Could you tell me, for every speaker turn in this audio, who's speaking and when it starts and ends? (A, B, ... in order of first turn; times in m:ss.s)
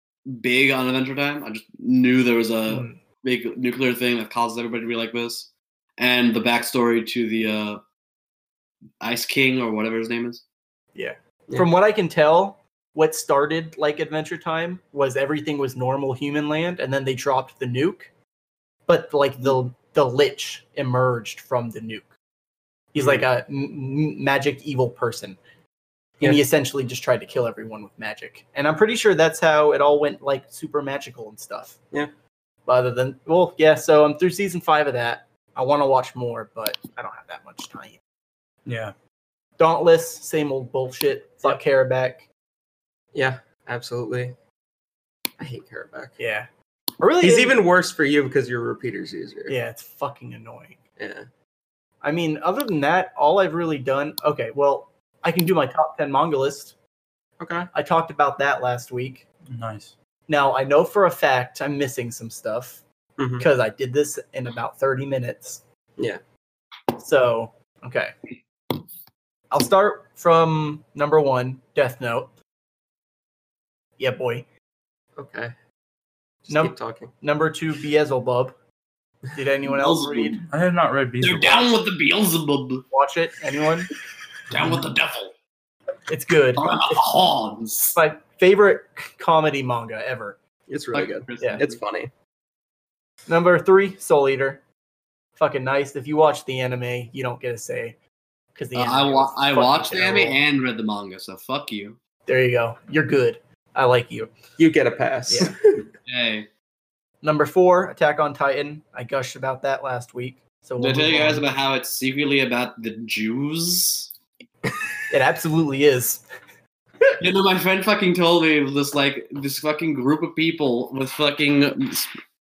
0:00.3-0:07.8 A
0:02.7-0:03.0 B
0:09.0-0:10.4 A
0:11.0-0:18.1 B
0:18.9-0:22.1 B
0:22.9-0:25.4 B
0:23.0-0:23.2 C
0:26.2-0:31.8 B
0:32.7-0:38.0 B
0:38.6-0:38.9 D
0:39.6-0:42.3 B
0:43.1-0:44.4 C
0:45.4-0:46.2 C
0:46.2-0:46.5 B
0:47.0-0:47.6 B
0:47.2-0:49.6 C
0:49.5-0:50.8 B
0:51.0-0:51.3 C
0:52.0-0:56.8 B
0:57.4-0:57.7 C
0:57.7-0:59.3 B
0:59.5-0:59.9 D
1:00.3-1:02.8 B
1:03.2-1:03.5 C
1:03.4-1:05.6 B
1:07.0-1:08.1 B
1:09.5-1:12.3 B
1:14.0-1:14.5 B
1:15.2-1:15.5 C
1:16.5-1:17.1 C
1:16.5-1:18.6 B
1:19.3-1:20.4 B
1:19.6-1:20.4 A
1:20.5-1:21.7 D
1:21.2-1:22.8 A
1:22.9-1:23.9 B
1:24.5-1:25.3 A
1:24.5-1:24.9 D
1:26.1-1:26.7 B
1:26.6-1:28.0 A
1:28.0-1:30.4 B
1:30.7-1:32.1 C
1:30.9-1:31.8 A
1:33.3-1:34.6 B
1:35.4-1:38.0 B
1:38.6-1:40.4 B
1:38.7-1:42.0 A
1:42.3-1:44.4 B
1:44.6-1:45.8 C
1:45.3-1:45.5 B
1:46.1-1:46.5 A
1:47.2-1:51.4 B
1:50.8-1:54.1 A
1:55.1-1:56.2 B
1:57.2-2:02.1 A